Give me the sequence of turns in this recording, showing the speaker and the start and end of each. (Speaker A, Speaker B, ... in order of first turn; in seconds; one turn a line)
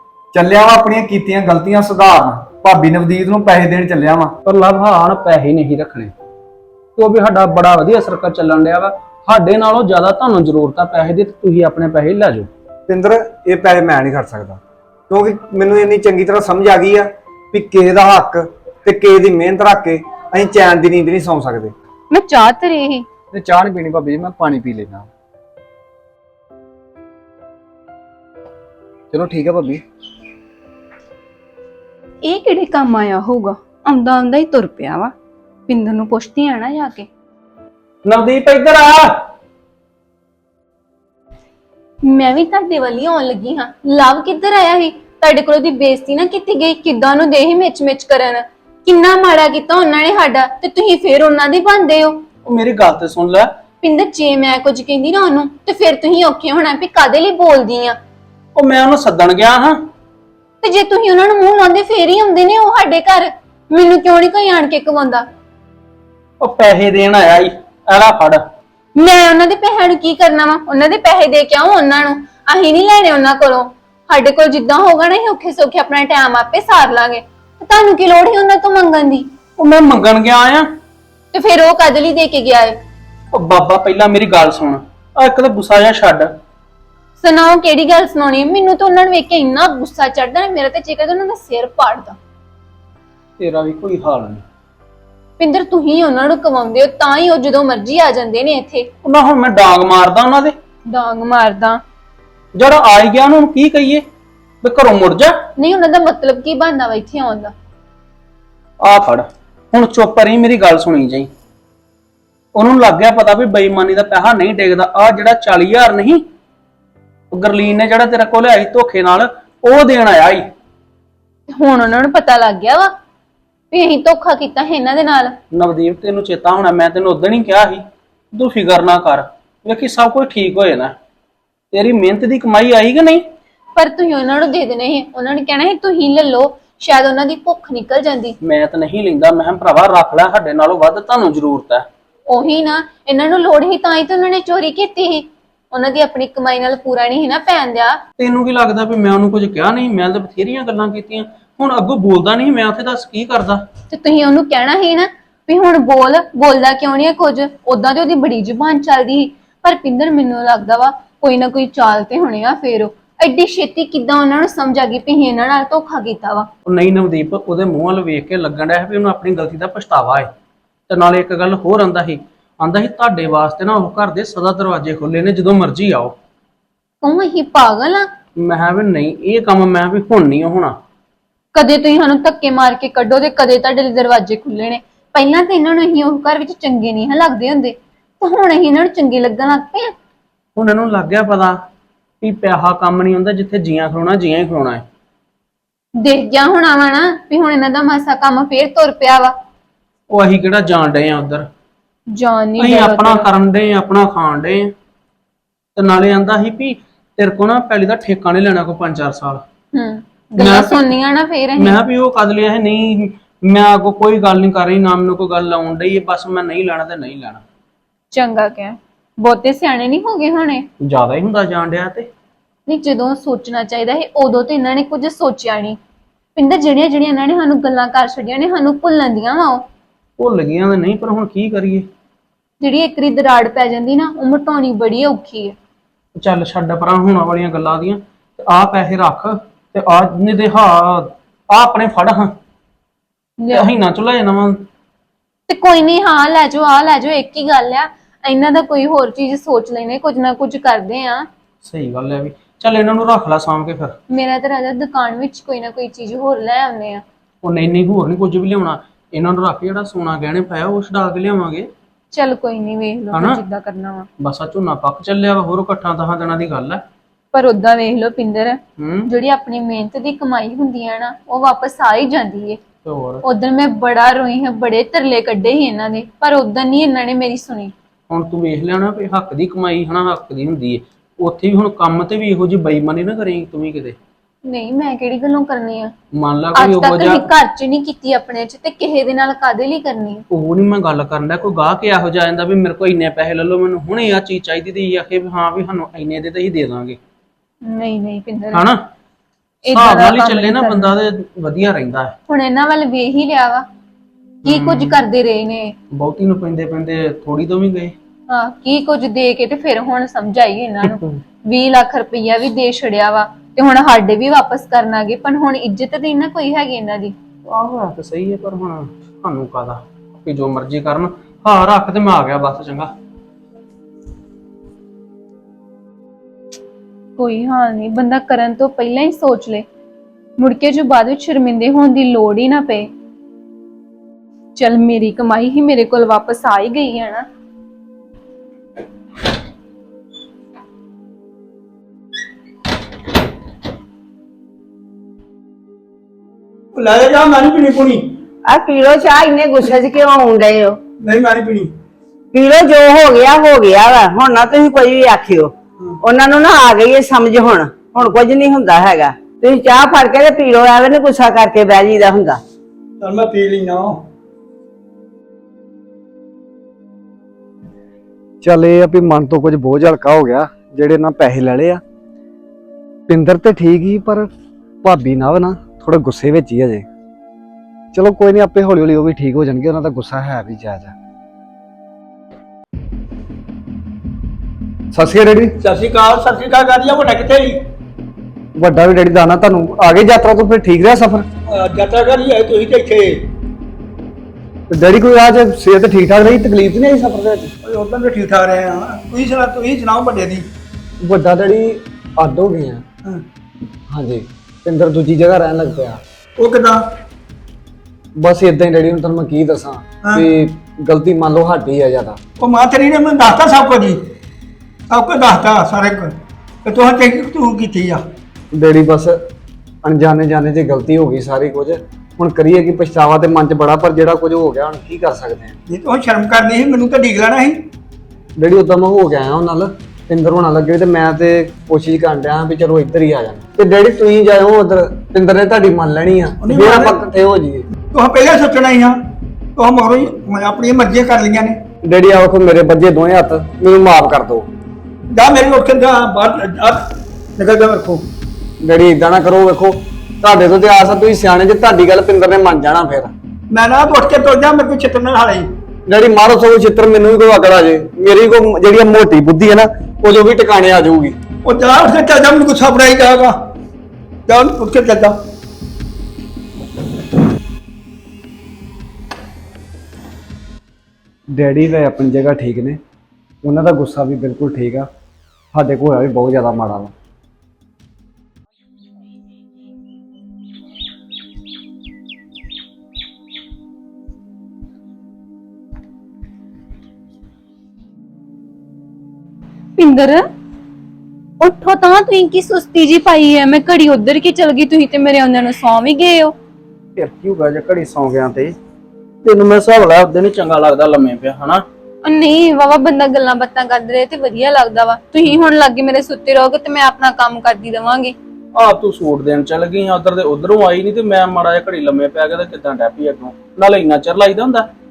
Speaker A: 0.3-4.3
Speaker B: 4.4-6.1
Speaker B: 7.0-12.5
Speaker A: 12.9-21.7
Speaker C: 22.1-23.1
Speaker A: 23.3-25.1
Speaker A: 29.1-29.8
Speaker C: 32.2-35.1
Speaker C: 35.7-37.1
Speaker B: 38.0-39.2
Speaker C: 42.0-52.2
Speaker B: 52.5-53.5
Speaker C: 53.8-58.0
Speaker B: 58.5-59.8
Speaker C: 60.6-65.2
Speaker B: 66.4-68.4
Speaker C: 69.0-79.2
Speaker B: 79.6-80.7
Speaker C: 81.3-82.8
Speaker B: 83.3-86.3
Speaker C: 87.2-92.2
Speaker B: 93.4-94.4
Speaker C: 95.4-98.9
Speaker B: 99.0-100.5
Speaker C: 100.9-101.8
Speaker B: 102.5-104.0
Speaker B: 104.6-105.3
Speaker C: 105.6-107.5
Speaker B: 108.8-111.3
Speaker B: 112.5-116.2
Speaker B: 117.3-120.5
Speaker C: 121.5-122.9
Speaker C: 123.7-125.3
Speaker B: 125.5-130.9
Speaker B: 131.7-133.2
Speaker C: 133.8-138.4
Speaker B: 138.4-141.8
Speaker C: 142.3-148.0
Speaker B: 148.2-153.6
Speaker C: 153.9-166.5
Speaker B: 166.7-170.3
Speaker B: 170.9-176.2
Speaker C: 177.0-178.1
Speaker B: 178.3-180.7
Speaker C: 181.5-189.9
Speaker B: 190.6-191.6
Speaker B: 192.2-194.8
Speaker C: 196.0-199.3
Speaker B: 200.1-201.4
Speaker C: 202.1-203.3
Speaker B: 202.6-204.7
Speaker B: 205.8-209.4
Speaker C: 209.7-211.8
Speaker B: 210.4-210.9
Speaker B: 211.6-217.4
Speaker C: 218.1-220.7
Speaker B: 220.8-222.1
Speaker C: 222.7-225.8
Speaker C: 226.3-229.6
Speaker B: 230.2-231.9
Speaker C: 232.6-235.5
Speaker B: 236.1-242.3
Speaker C: 243.4-243.7
Speaker B: 243.5-244.6
Speaker C: 245.5-251.3
Speaker B: 251.6-253.9
Speaker C: 254.1-257.0
Speaker B: 257.4-261.7
Speaker C: 262.1-264.1
Speaker B: 263.1-263.4
Speaker B: 264.2-266.8
Speaker C: 267.3-272.6
Speaker B: 268.8-269.1
Speaker B: 272.8-273.2
Speaker C: 273.2-277.7
Speaker B: 278.1-283.9
Speaker C: 284.4-285.9
Speaker B: 286.1-287.3
Speaker C: 286.5-290.2
Speaker B: 290.3-297.0
Speaker C: 297.6-298.6
Speaker B: 298.5-298.8
Speaker C: 299.6-300.9
Speaker B: 299.6-302.1
Speaker C: 302.3-303.6
Speaker B: 304.4-305.0
Speaker C: 304.4-305.7
Speaker B: 305.9-307.9
Speaker C: 308.3-317.1
Speaker B: 310.8-311.1
Speaker B: 317.4-322.9
Speaker C: 327.2-329.6
Speaker C: 330.4-332.9
Speaker C: 334.6-337.2
Speaker D: 346.7-348.2
Speaker E: 348.4-350.8
Speaker D: 351.0-351.7
Speaker E: 352.3-362.4
Speaker D: 363.0-364.0
Speaker A: 368.4-371.8
Speaker A: 373.1-374.3
Speaker A: 374.8-376.9
Speaker A: 377.9-380.9
Speaker A: 384.9-385.5
Speaker D: 385.6-387.6
Speaker A: 388.6-391.2
Speaker D: 391.5-393.2
Speaker A: 394.7-397.5
Speaker D: 397.6-400.4
Speaker A: 401.0-402.8
Speaker A: 403.9-406.0
Speaker D: 406.4-406.8
Speaker A: 408.2-412.2
Speaker D: 412.4-414.1
Speaker D: 414.9-418.0
Speaker A: 418.5-419.2
Speaker A: 419.8-425.5
Speaker D: 425.7-427.7
Speaker A: 428.4-437.6
Speaker D: 436.4-437.0
Speaker D: 437.9-439.0
Speaker D: 439.6-441.6
Speaker A: 441.8-444.5
Speaker D: 445.1-448.1
Speaker A: 448.6-453.1
Speaker D: 453.5-455.5
Speaker A: 455.9-461.1
Speaker D: 461.4-463.4
Speaker D: 464.3-465.1
Speaker A: 471.3-472.8
Speaker A: 473.4-474.9
Speaker A: 475.5-476.9
Speaker C: 489.8-490.3
Speaker C: 491.4-496.3
Speaker B: 497.0-498.5
Speaker B: 499.2-501.6
Speaker C: 502.0-508.1
Speaker B: 508.5-514.7